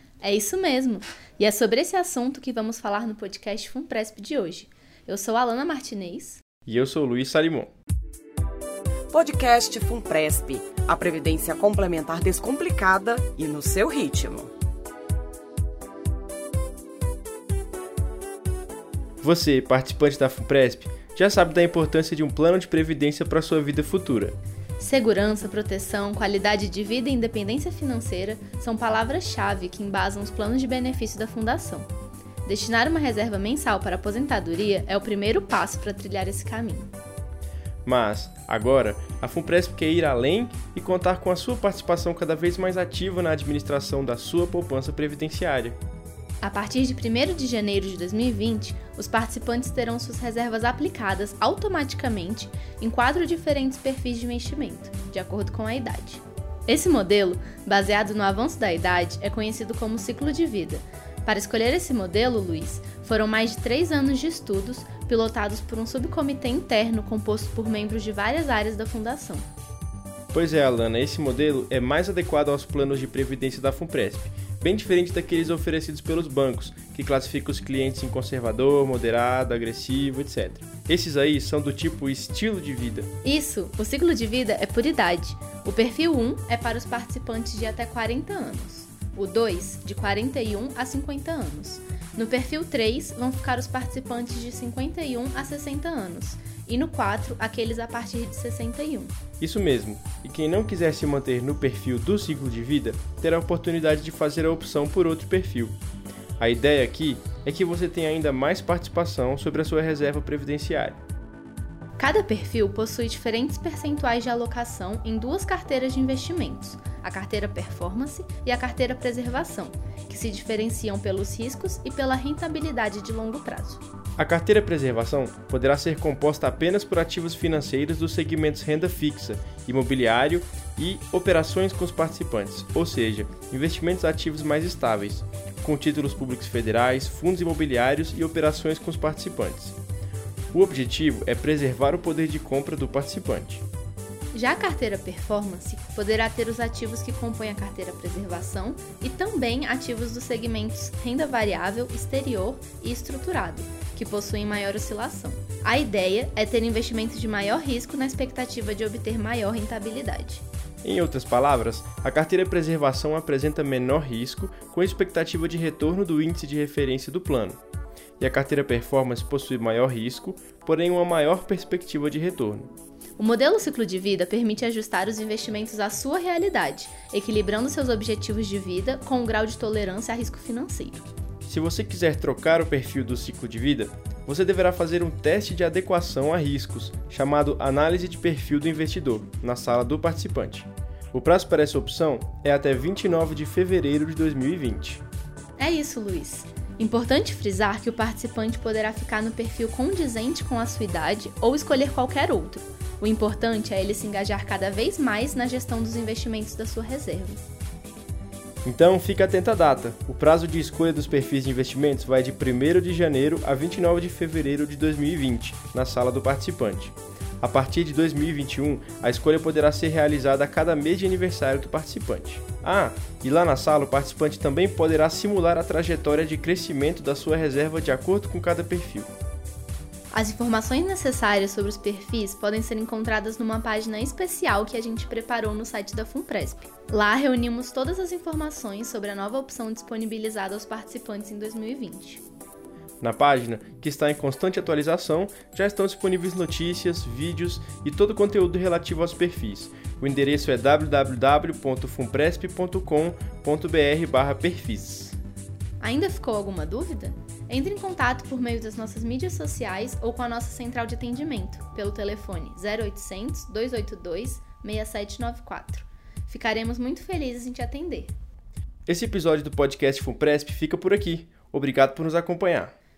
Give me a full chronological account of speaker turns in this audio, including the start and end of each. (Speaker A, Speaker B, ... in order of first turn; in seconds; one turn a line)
Speaker A: 0.2-6.4
Speaker B: 6.7-7.7
Speaker C: 9.1-14.5
Speaker B: 19.2-24.4
Speaker A: 24.8-31.9
Speaker A: 32.5-36.9
Speaker B: 37.9-45.8
Speaker A: 46.4-69.5
Speaker B: 70.3-83.1
Speaker A: 83.2-99.2
Speaker B: 99.4-105.8
Speaker B: 106.4-111.0
Speaker A: 112.0-123.8
Speaker B: 124.2-139.8
Speaker B: 140.5-143.6
Speaker A: 144.3-160.4
Speaker B: 160.8-167.6
Speaker B: 168.2-172.7
Speaker A: 173.2-181.1
Speaker B: 181.4-195.0
Speaker A: 195.6-207.4
Speaker B: 208.7-229.1
Speaker A: 230.1-242.2
Speaker B: 243.0-255.2
Speaker A: 255.8-268.1
Speaker B: 268.9-272.7